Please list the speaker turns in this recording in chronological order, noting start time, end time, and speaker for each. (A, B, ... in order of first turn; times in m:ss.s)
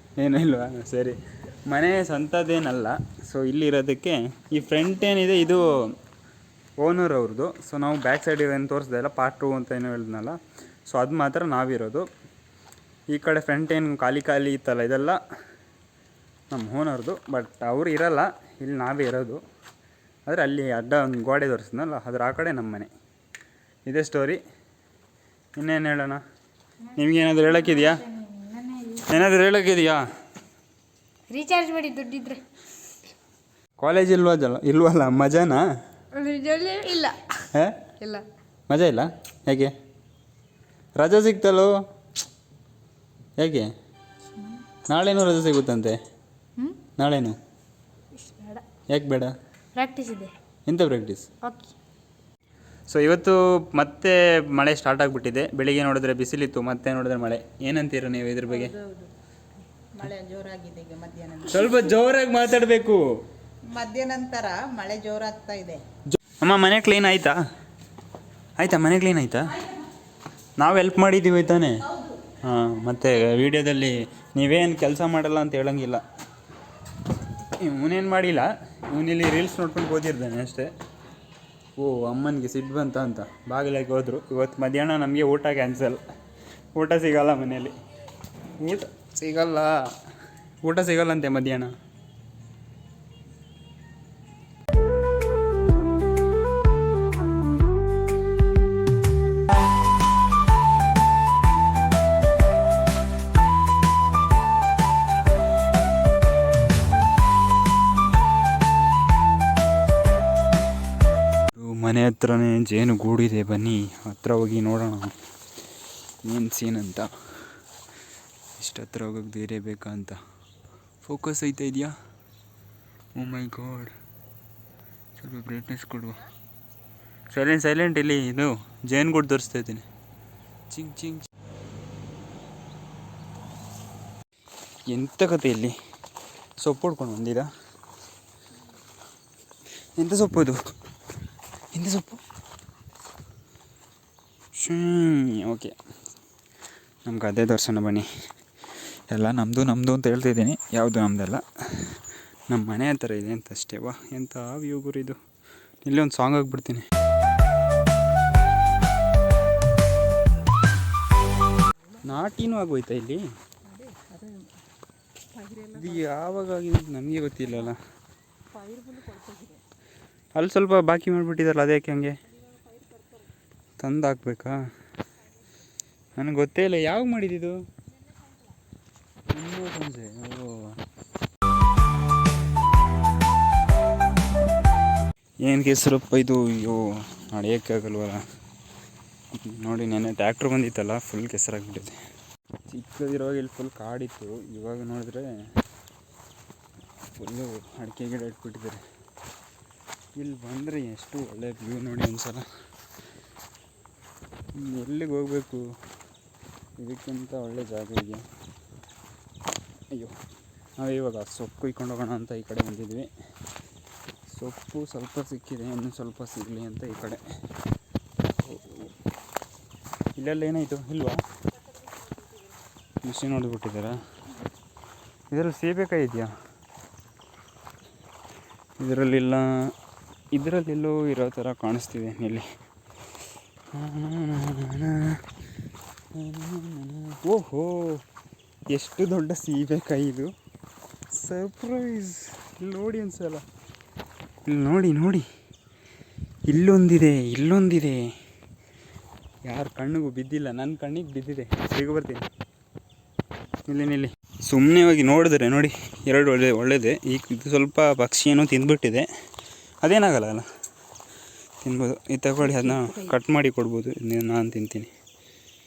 0:00.2-0:05.9 A
0:06.8-0:10.4 A
0:10.9-0:12.0 A
0:13.1-0:15.2 A
0:16.5-0:19.4 A
0:20.2-0:22.9 A
0:23.8-0:24.4 A
0:25.6-0:26.2 A
0:26.9-0:28.0 A
0:27.0-0:29.1 B
0:29.0-0:30.0 A
0:31.3-0:32.4 B
0:33.8-0:35.6 A
0:36.1-0:37.4 B
0:37.5-0:37.9 A
0:38.0-0:38.2 B
0:38.7-0:39.7 A
0:41.0-0:41.7 A
0:43.4-0:43.7 A
0:44.9-0:46.0 A
0:47.0-0:47.4 A
0:48.1-0:48.6 B
0:48.9-0:49.3 A
0:49.7-0:50.3 B
0:50.6-0:51.3 A
0:51.4-0:51.7 B
0:52.9-0:58.7 A
0:58.5-0:59.1 C
0:59.9-1:01.9 C
1:01.5-1:03.0 A
1:03.6-1:05.8 C
1:06.1-1:07.4 A
1:08.6-1:09.6 A
1:10.6-1:11.9 A
1:12.4-1:16.0 A
1:17.6-1:20.7 A
1:21.8-1:26.0 A
1:26.8-1:27.7 A
1:28.6-1:29.7 A
1:30.6-1:31.7 A
1:51.5-1:55.1 A
1:56.2-1:57.1 A
1:58.6-2:00.2 A
2:01.0-2:01.9 A
2:03.1-2:03.9 A
2:05.2-2:06.2 A
2:07.3-2:09.8 A
2:10.7-2:11.3 A
2:14.9-2:15.8 A
2:16.6-2:17.5 A
2:20.0-2:20.6 A
2:21.7-2:22.2 A
2:24.6-2:25.7 A
2:27.0-2:28.0 A
2:29.1-2:35.2 A
2:35.8-2:36.8 A
2:42.0-2:43.2 A
2:43.7-2:44.5 C
2:45.3-2:46.1 C
2:45.7-2:47.8 A
2:48.5-2:49.6 C
2:50.3-2:52.2 A
2:52.6-2:53.0 C
2:53.8-2:54.6 A
2:56.2-2:57.6 A
2:59.3-3:00.8 A
3:05.4-3:08.2 A
3:09.3-3:11.9 A
3:12.7-3:15.3 A
3:17.2-3:18.8 A
3:20.2-3:22.4 A
3:24.5-3:25.7 A
3:26.8-3:28.2 A
3:30.8-3:33.1 A
3:34.3-3:37.2 A
3:38.4-3:38.9 A
3:40.2-3:41.2 A
3:43.0-3:44.0 A
3:45.3-3:46.3 A
3:48.8-3:49.7 A
3:50.3-3:52.4 A
3:53.7-3:55.2 A
3:56.1-3:58.0 A
3:58.7-4:00.3 A
4:01.1-4:03.4 A
4:04.4-4:05.2 A
4:06.5-4:08.1 A
4:09.4-4:12.2 A
4:13.7-4:19.0 A
4:19.8-4:20.4 A
4:21.6-4:24.9 A
4:22.4-4:23.1 C